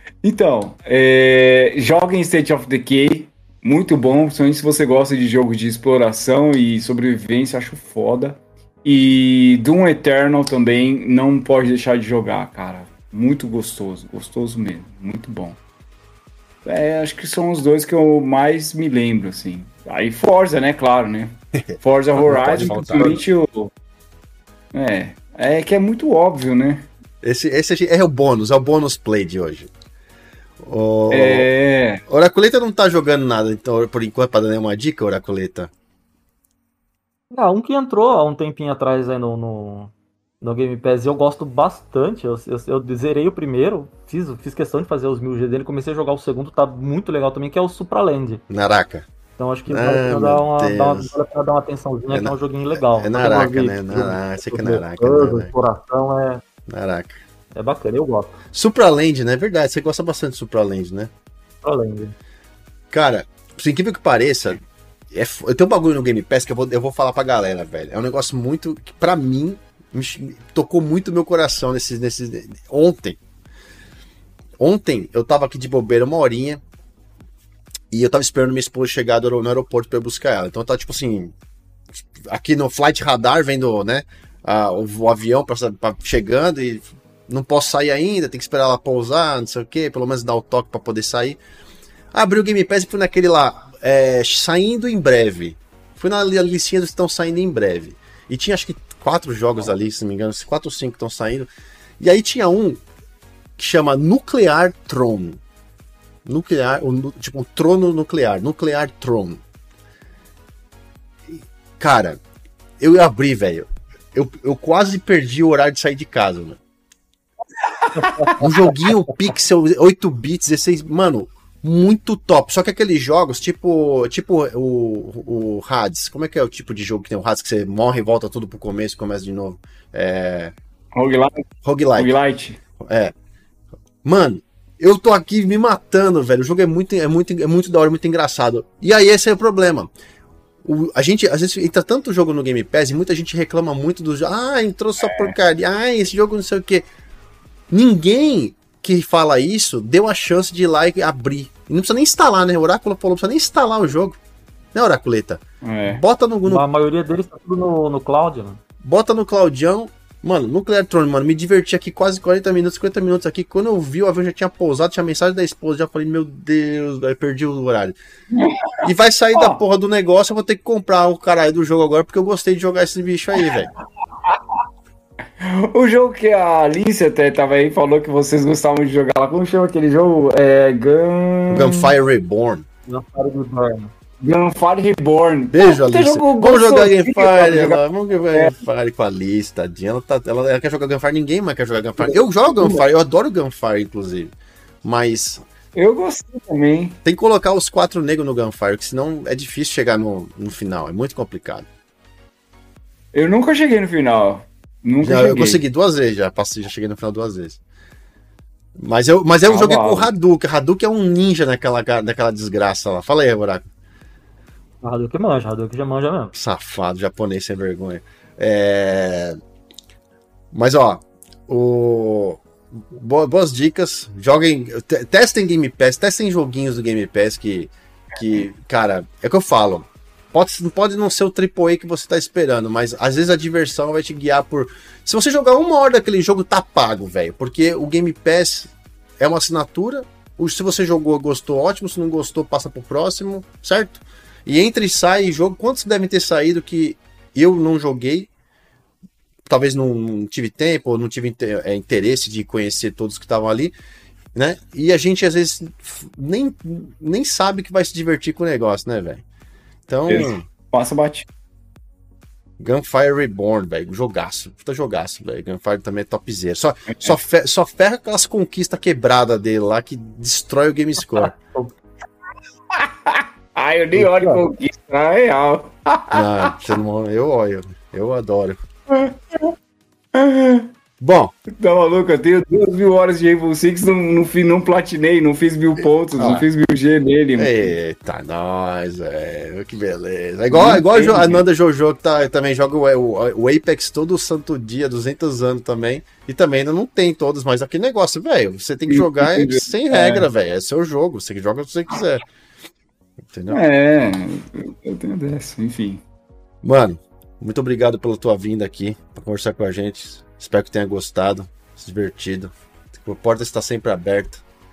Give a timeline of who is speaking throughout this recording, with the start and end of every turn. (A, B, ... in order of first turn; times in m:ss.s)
0:00.2-0:15.6 A
0:16.6-0:23.7 A
0:22.2-0:23.2 B
0:24.7-0:26.9 A
0:27.2-0:29.7 B
0:30.6-0:31.5 B
0:31.1-0:32.0 A
0:32.1-0:35.7 B
0:37.3-0:48.4 C
0:48.5-0:49.1 B
0:49.4-0:56.4 C
0:49.7-0:51.1 B
0:52.1-0:55.5 B
0:56.7-0:57.2 B
0:57.6-0:58.4 C
0:58.5-1:01.1 B
1:01.6-1:02.2 C
1:02.9-1:13.2 B
1:14.6-1:16.6 B
1:17.9-1:21.3 B
1:22.0-1:31.4 B
1:32.1-1:41.5 B
1:42.0-1:42.8 B
1:43.6-1:45.4 B
1:46.2-1:49.4 B
1:51.3-1:52.2 B
1:52.8-1:56.6 B
1:57.8-1:58.4 A
1:58.0-1:58.5 C
1:58.3-2:10.5 B
2:10.9-2:11.4 A
2:11.6-2:12.1 B
2:12.0-2:12.6 A
2:12.8-2:13.2 B
2:14.0-2:19.9 B
2:20.6-2:26.9 B
2:25.0-2:25.4 A
2:27.7-2:34.2 B
2:34.7-2:36.6 B
2:35.6-2:36.0 A
2:36.5-2:38.6 C
2:38.8-2:48.0 B
2:48.3-2:49.6 A
2:48.8-2:53.7 B
2:54.2-2:54.6 A
2:55.4-3:01.9 A
3:01.5-3:02.6 B
3:02.9-3:03.9 C
3:04.2-3:07.8 A
3:05.5-3:14.3 B
3:12.1-3:12.8 A
3:14.8-3:15.4 B
3:15.8-3:17.0 A
3:17.0-3:21.7 B
3:23.1-3:25.6 A
3:25.0-3:27.6 B
3:28.8-3:33.7 B
3:29.5-3:30.1 A
3:34.8-3:36.3 C
3:36.4-3:39.4 B
3:40.5-4:08.3 B
4:09.5-4:13.8 B
4:14.4-4:19.2 B
4:19.9-4:20.4 B
4:20.1-4:21.3 A
4:22.6-4:31.3 B
4:31.2-4:31.7 C
4:32.7-4:36.8 A
4:34.0-4:34.4 C
4:36.1-4:38.6 B
4:38.9-4:39.6 A
4:40.1-4:40.7 A
4:41.0-4:41.3 B
4:41.5-4:47.7 A
4:45.8-4:46.5 B
4:47.4-5:02.2 B
4:50.5-4:51.4 A
4:58.9-5:00.3 A
5:03.3-5:03.6 B
5:03.5-5:06.0 A
5:06.6-5:14.4 B